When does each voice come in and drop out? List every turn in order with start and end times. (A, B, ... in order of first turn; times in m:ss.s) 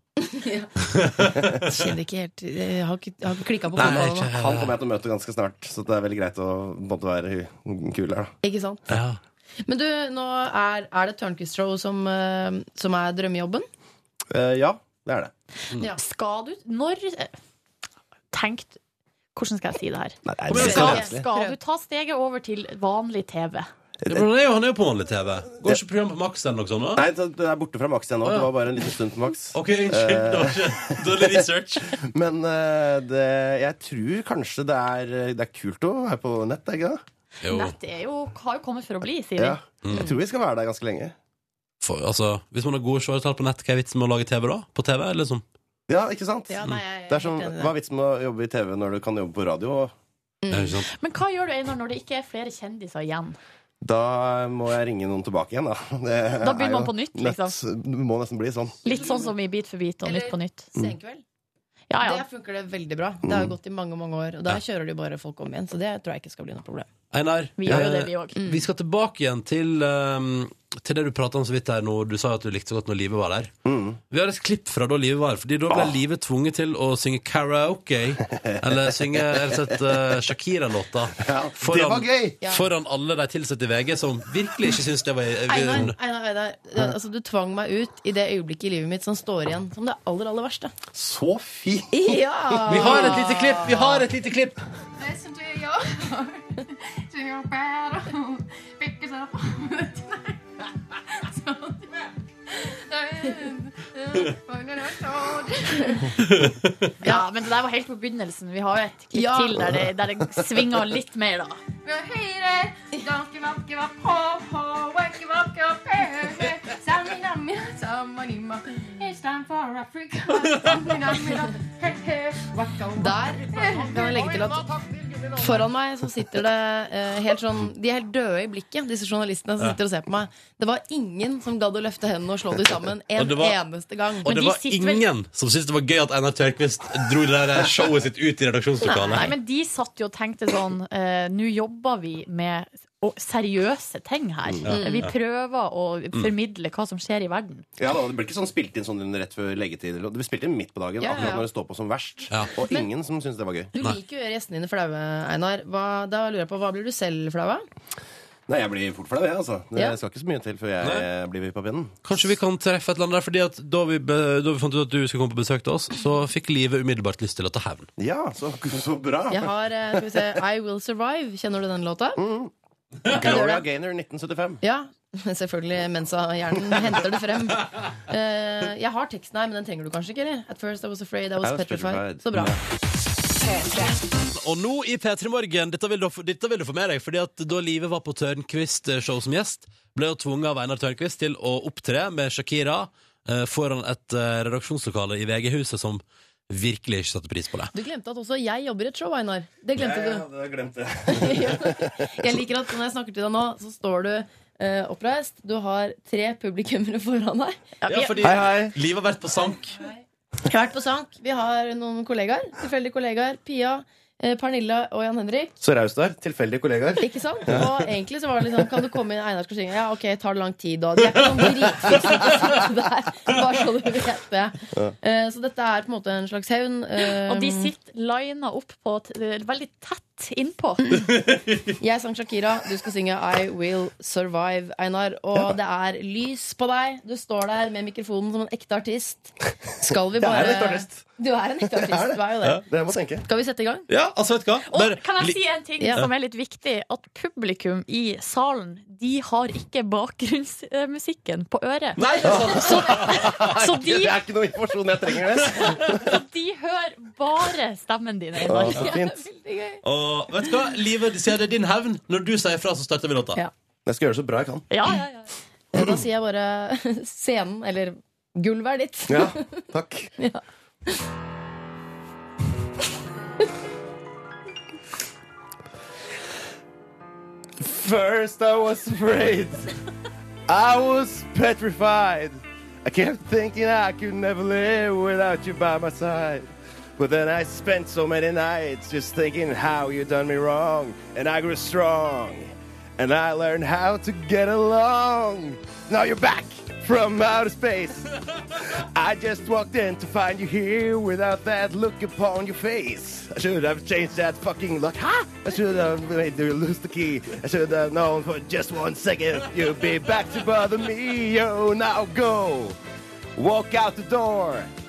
0:00.2-0:00.7 A
0:00.9-0:01.7 B
0:01.6-0:04.3 A
0:03.8-0:04.8 B
0:03.8-0:08.3 C
0:08.4-0:08.8 A
0:08.9-0:09.2 B
0:09.6-0:13.6 A
0:14.3-0:15.3 C
0:15.9-0:17.4 D
0:18.3-0:18.8 D
0:19.3-0:23.7 D
0:20.2-0:21.2 C
0:20.5-0:21.0 B
0:20.5-0:21.6 A
0:24.0-0:24.3 C
0:24.1-0:27.0 B
0:27.0-0:37.0 C
0:29.5-0:31.9 B
0:37.4-0:39.6 D
0:37.4-0:37.7 B
0:39.4-0:41.1 C
0:39.9-0:40.2 A
0:41.8-0:45.4 B
0:45.9-0:49.9 C
0:46.5-0:47.7 A
0:50.4-0:50.8 A
0:50.5-0:50.9 B
0:50.9-0:53.4 D
0:53.8-0:58.8 C
0:56.4-0:57.5 D
0:58.8-1:00.7 D
0:58.8-0:59.3 A
1:00.0-1:01.2 A
1:01.9-1:02.2 D
1:02.0-1:06.9 A
1:03.3-1:03.5 C
1:07.1-1:13.5 B
1:07.6-1:08.4 D
1:08.4-1:08.6 A
1:13.6-1:14.0 C
1:14.1-1:25.9 B
1:18.3-1:19.6 C
1:21.2-1:22.4 C
1:22.4-1:22.7 A
1:25.5-1:30.7 A
1:30.9-1:33.0 C
1:31.9-1:34.0 A
1:32.7-1:34.6 B
1:35.0-1:40.4 E
1:41.1-1:42.1 E
1:42.6-1:46.1 E
1:46.3-1:46.7 B
1:47.0-1:47.3 A
1:47.0-1:51.6 D
1:49.1-1:49.6 A
1:51.8-2:05.2 E
2:03.0-2:04.7 A
2:05.3-2:14.3 A
2:13.2-2:13.6 B
2:14.2-2:19.3 B
2:14.2-2:15.0 D
2:18.8-2:27.6 D
2:24.6-2:25.1 B
2:24.7-2:25.1 A
2:27.8-2:33.7 C
2:31.0-2:31.5 A
2:33.7-2:37.6 A
2:38.5-2:42.0 C
2:40.8-2:41.1 B
2:42.0-2:47.9 B
2:48.0-2:49.5 C
2:49.3-2:52.2 A
2:52.2-2:52.5 C
2:53.1-2:54.6 C
2:53.1-2:53.6 A
2:54.6-3:02.6 A
3:01.4-3:02.6 C
3:04.3-3:17.7 B
3:17.7-3:20.2 A
3:19.7-3:22.1 C
3:21.0-3:27.6 A
3:27.8-3:28.3 D
3:27.9-3:29.8 B
3:28.2-3:28.8 C
3:30.4-3:35.5 A
3:35.6-3:37.8 C
3:37.0-3:47.7 A
3:47.2-3:51.0 D
3:51.8-4:02.6 A
3:59.8-4:01.1 C
4:01.7-4:03.2 C
4:03.2-4:03.9 A
4:03.9-4:05.4 B
4:04.7-4:14.2 D
4:12.0-4:13.4 B
4:12.2-4:16.1 C
4:15.4-4:18.9 D
4:18.4-4:19.2 C
4:18.7-4:19.8 A
4:19.8-4:23.4 B
4:23.8-4:24.7 C
4:24.7-4:25.2 D
4:25.7-4:29.4 A
4:29.1-4:30.1 C
4:30.2-4:31.0 A
4:37.6-4:39.7 C
4:40.5-5:12.8 C
5:13.4-5:14.7 C